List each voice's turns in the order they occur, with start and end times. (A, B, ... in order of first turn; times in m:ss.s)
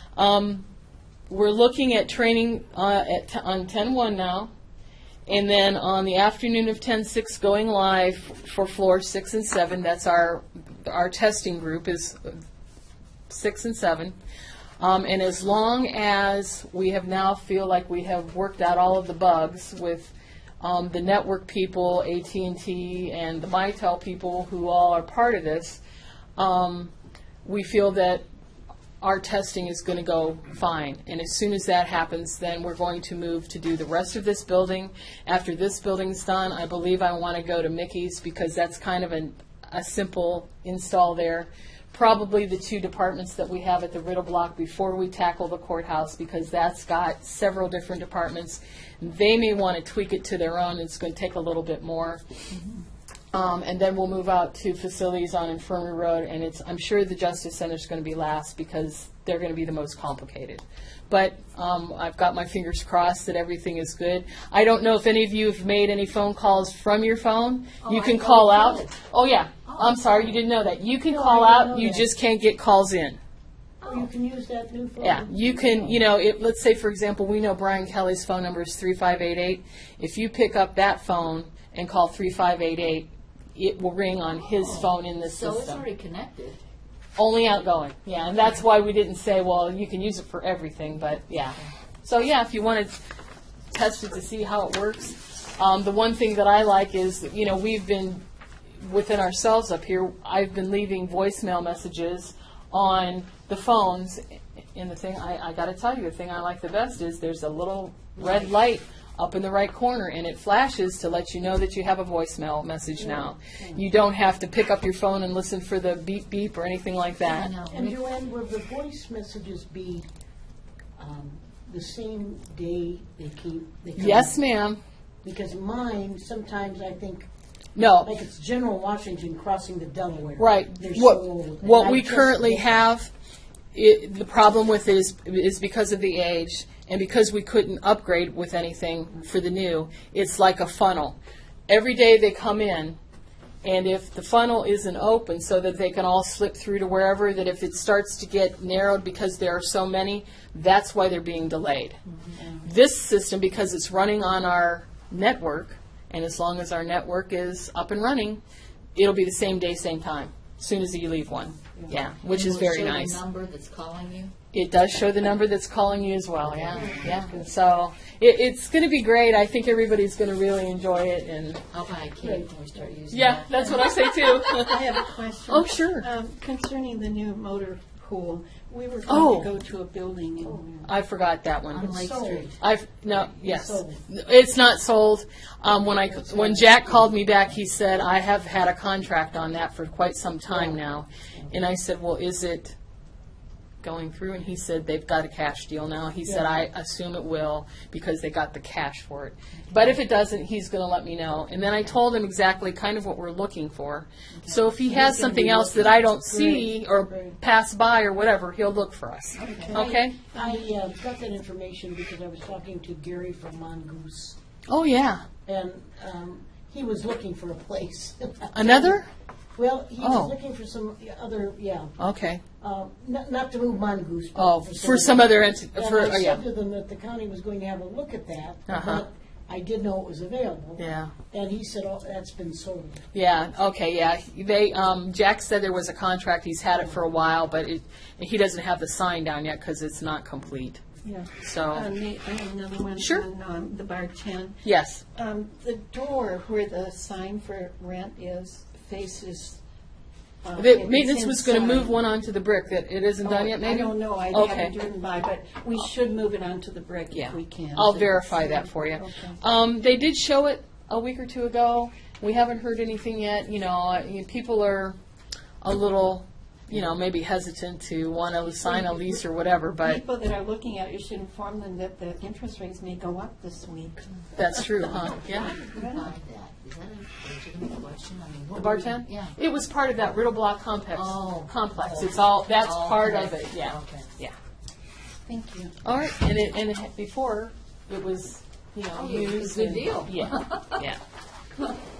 0:00.2-0:00.6 A
0:01.3-0:04.5 A
0:05.3-0:12.4 A
0:13.3-0:14.2 A
0:14.8-0:25.8 A
0:26.4-0:26.9 A
0:27.4-0:28.2 A
0:29.0-0:52.2 A
0:53.3-1:13.2 A
1:07.8-1:09.0 B
1:09.6-1:10.3 B
1:11.1-1:12.1 C
1:13.8-1:16.0 C
1:15.0-1:25.8 A
1:24.4-1:26.6 B
1:27.2-1:33.0 A
1:33.7-1:38.2 A
1:38.8-1:44.2 A
1:44.7-1:57.5 A
1:53.0-1:53.3 C
1:57.2-1:58.0 B
1:57.6-2:00.0 C
2:01.0-2:04.4 C
2:04.0-2:04.8 A
2:05.2-2:07.3 C
2:07.8-2:08.1 A
2:08.0-2:12.8 C
2:10.4-2:13.1 A
2:13.7-2:21.2 A
2:21.7-2:23.0 A
2:23.6-2:38.4 A
2:39.0-2:43.2 A
2:42.2-2:44.3 B
2:44.5-2:51.6 A
2:46.4-2:47.2 B
2:46.7-2:47.5 C
2:51.7-2:54.4 B
2:52.2-2:52.8 C
2:53.1-2:56.1 A
2:54.5-3:00.8 D
2:59.0-2:59.5 A
3:00.8-3:01.9 A
3:01.7-3:02.6 B
3:01.8-3:02.5 C
3:02.6-3:12.8 A
3:03.3-3:04.0 C
3:06.1-3:07.0 C
3:10.5-3:10.8 C
3:13.8-3:30.2 A
3:16.2-3:16.6 C
3:24.3-3:24.7 B
3:24.8-3:27.3 C
3:29.4-3:29.8 B
3:29.6-3:30.6 D
3:29.7-3:34.4 C
3:34.7-3:35.2 A
3:35.4-3:39.0 C
3:38.5-3:39.1 A
3:39.5-3:41.9 C
3:40.0-3:40.3 A
3:42.0-3:42.4 A
3:42.6-3:53.0 C
3:44.4-3:46.4 A
3:48.7-3:49.0 A
3:50.8-3:51.1 A
3:53.1-4:00.8 A
4:01.0-4:04.6 D
4:01.4-4:01.9 A
4:03.0-4:03.2 A
4:04.6-4:05.0 A
4:05.1-4:09.6 D
4:10.4-4:11.9 D
4:10.6-4:14.7 A
4:13.2-4:19.4 D
4:17.1-4:25.0 A
4:25.6-4:30.0 A
4:29.8-4:36.1 D
4:34.3-4:35.6 A
4:34.7-4:39.3 B
4:38.5-4:44.3 A
4:40.9-4:44.1 B
4:45.3-4:45.7 D
4:45.8-4:51.0 A
4:48.9-4:50.8 B